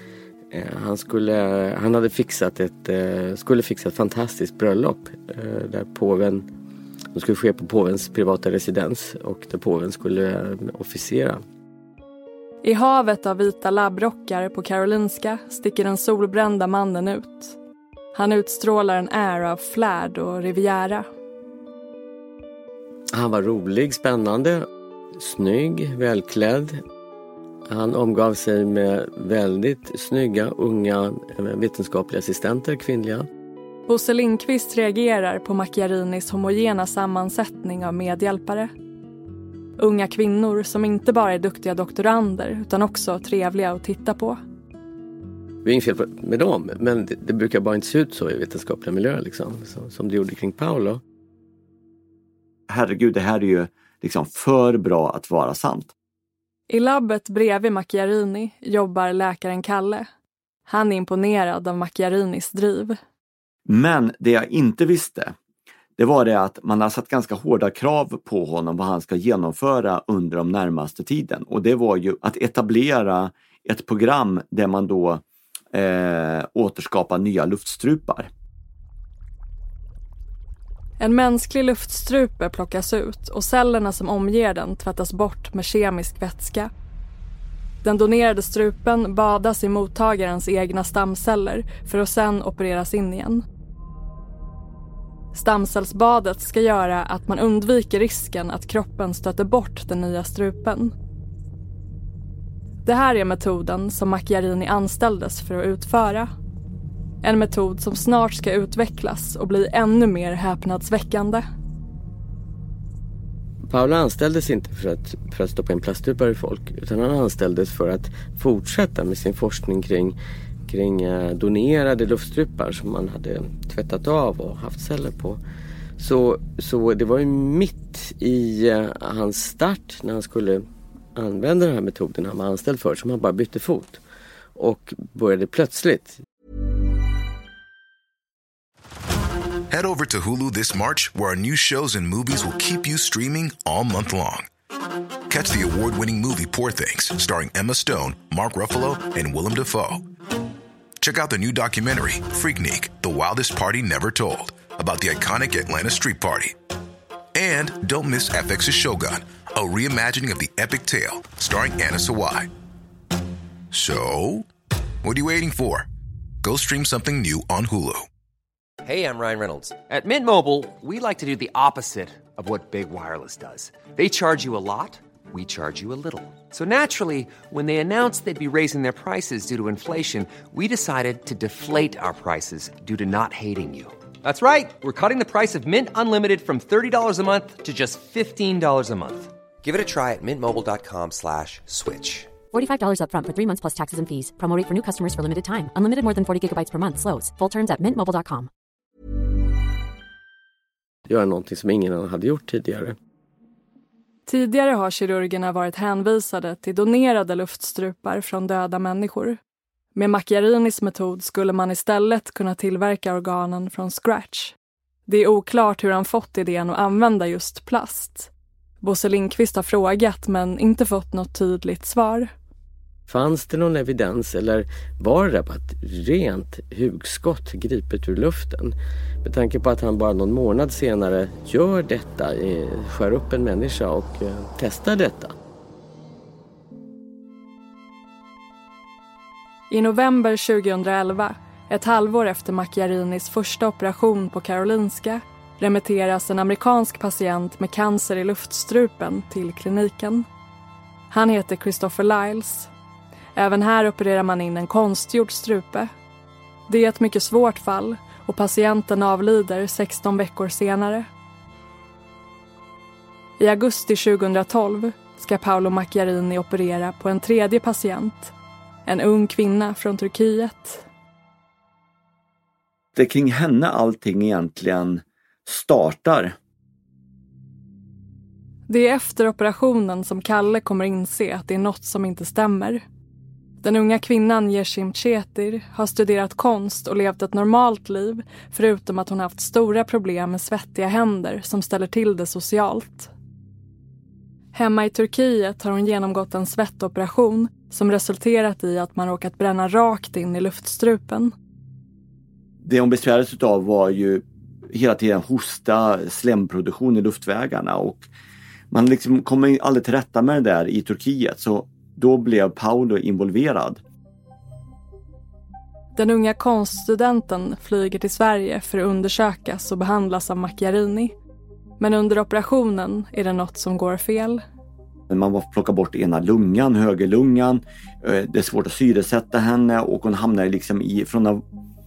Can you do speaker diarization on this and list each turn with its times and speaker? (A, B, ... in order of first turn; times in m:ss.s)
0:00.5-0:06.5 A
0:07.1-0:11.4 A
0:12.6-0:17.6 B
0:18.1-0:21.0 B
0:23.1-0:26.8 A
0:27.7-0:33.3 A
0:33.9-0:38.7 B
0:39.8-0:44.4 B
0:45.6-0:51.0 A
0:52.7-0:55.9 C
0:56.7-1:00.1 B
1:00.7-1:03.0 B
1:03.7-1:05.3 C
1:06.0-1:18.3 C
1:21.0-1:26.7 B
1:27.8-1:33.4 B
1:35.3-1:40.9 B
1:42.8-1:46.3 B
1:47.2-1:51.4 B
1:53.7-2:05.4 A
2:06.0-2:14.0 A
2:14.6-2:16.2 A
2:19.7-2:24.5 D
2:25.3-2:30.0 D
2:31.0-2:36.6 D
2:37.3-2:42.5 D
2:43.7-2:44.5 D
2:45.0-2:45.9 D
2:46.4-2:48.0 D
2:48.8-3:12.4 E
3:12.5-3:18.5 F
3:21.1-3:23.0 A
3:24.3-3:29.4 B
3:29.9-3:34.5 B
3:35.1-3:38.3 B
3:38.8-3:42.3 B
3:43.1-3:55.4 A
3:59.7-4:10.2 B
4:11.1-4:12.7 B
4:13.3-4:15.9 B
4:16.7-4:21.1 B
4:23.4-4:28.3 B
4:28.8-4:30.8 B
4:33.0-4:36.4 C
4:38.7-4:42.8 B
4:43.6-4:53.1 B
4:54.5-5:01.3 B
5:02.6-5:08.0 C
5:08.7-5:13.8 C
5:16.0-5:21.1 B
5:21.8-5:24.4 B
5:25.1-5:31.4 C